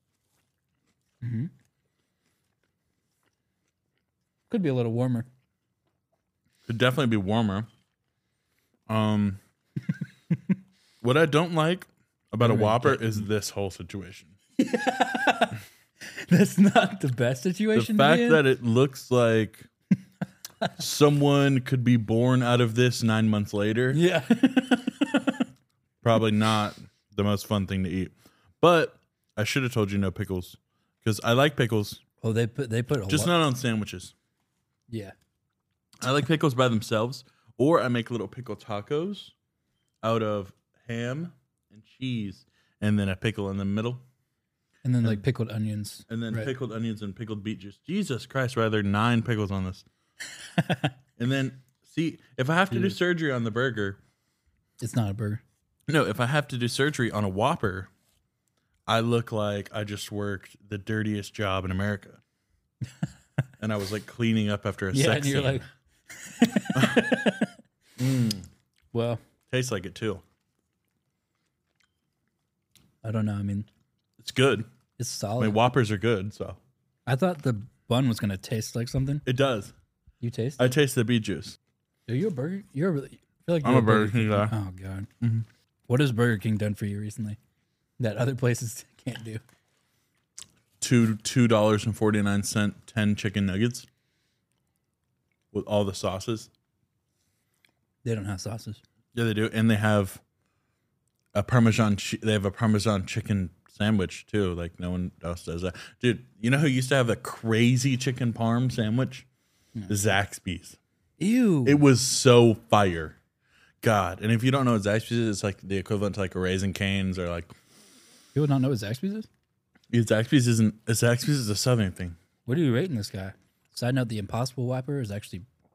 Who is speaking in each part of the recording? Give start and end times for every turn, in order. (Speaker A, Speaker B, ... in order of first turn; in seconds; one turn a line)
Speaker A: 1.2-1.5
Speaker A: 4.5-5.3
Speaker B: 6.7-7.7
Speaker B: 8.9-9.4
Speaker B: 11.0-14.3
Speaker A: 12.4-13.2
Speaker A: 14.6-18.4
Speaker B: 17.7-19.7
Speaker B: 20.8-24.0
Speaker A: 23.9-25.4
Speaker B: 26.0-32.0
Speaker A: 32.2-33.3
Speaker B: 33.1-34.1
Speaker B: 36.0-39.3
Speaker B: 40.0-44.0
Speaker A: 44.8-46.5
Speaker B: 46.1-49.9
Speaker A: 50.6-50.9
Speaker B: 51.2-54.0
Speaker A: 52.7-53.0
Speaker A: 54.8-55.4
Speaker B: 55.9-57.9
Speaker B: 58.9-62.2
Speaker B: 63.6-65.7
Speaker A: 64.9-65.6
Speaker A: 66.2-67.5
Speaker B: 66.7-67.0
Speaker B: 68.0-68.5
Speaker A: 68.9-69.2
Speaker B: 69.5-70.2
Speaker A: 73.0-73.7
Speaker B: 74.2-74.7
Speaker A: 75.0-75.6
Speaker B: 75.4-76.6
Speaker A: 77.1-79.2
Speaker B: 79.2-79.7
Speaker A: 80.2-80.7
Speaker B: 80.6-81.6
Speaker A: 82.1-85.1
Speaker B: 83.6-84.5
Speaker B: 85.2-85.5
Speaker A: 85.9-87.4
Speaker A: 88.0-89.4
Speaker B: 90.8-93.9
Speaker B: 95.5-96.5
Speaker A: 98.0-98.8
Speaker B: 99.1-100.2
Speaker B: 101.3-109.3
Speaker B: 109.9-110.8
Speaker A: 111.2-111.8
Speaker B: 111.6-113.2
Speaker B: 113.8-117.5
Speaker A: 118.3-119.3
Speaker B: 119.9-122.2
Speaker A: 122.5-125.5